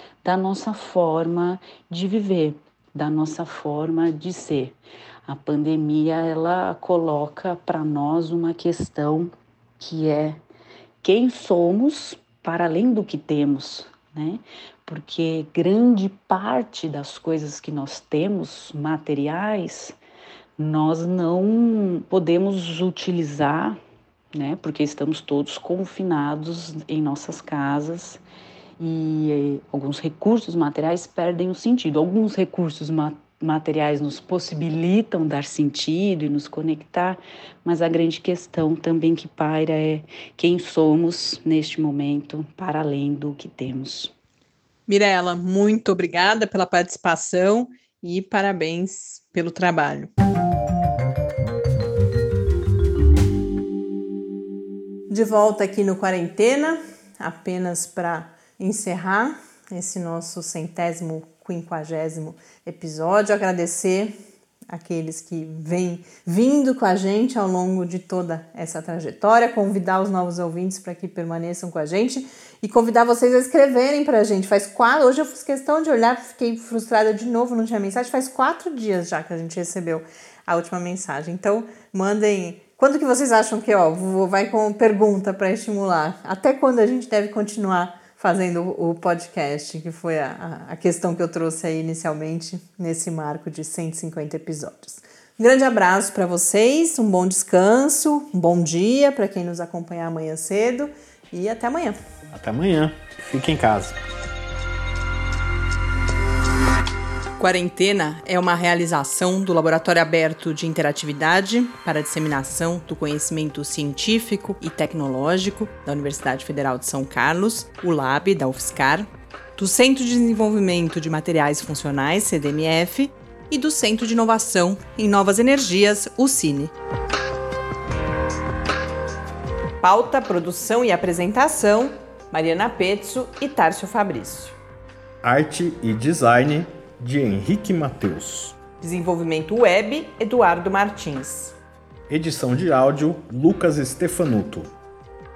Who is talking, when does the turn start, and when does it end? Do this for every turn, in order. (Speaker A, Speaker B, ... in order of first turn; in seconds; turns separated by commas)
Speaker A: 0.2-10.4, Speaker A: 11.0-19.9, Speaker A: 20.6-23.8, Speaker A: 24.3-28.2, Speaker A: 28.8-44.1, Speaker B: 44.9-50.1, Speaker B: 55.1-64.2, Speaker B: 64.7-102.0, Speaker C: 102.3-104.0, Speaker B: 107.4-126.7, Speaker B: 129.8-134.6, Speaker C: 135.2-138.6, Speaker B: 138.8-141.6, Speaker C: 142.1-144.7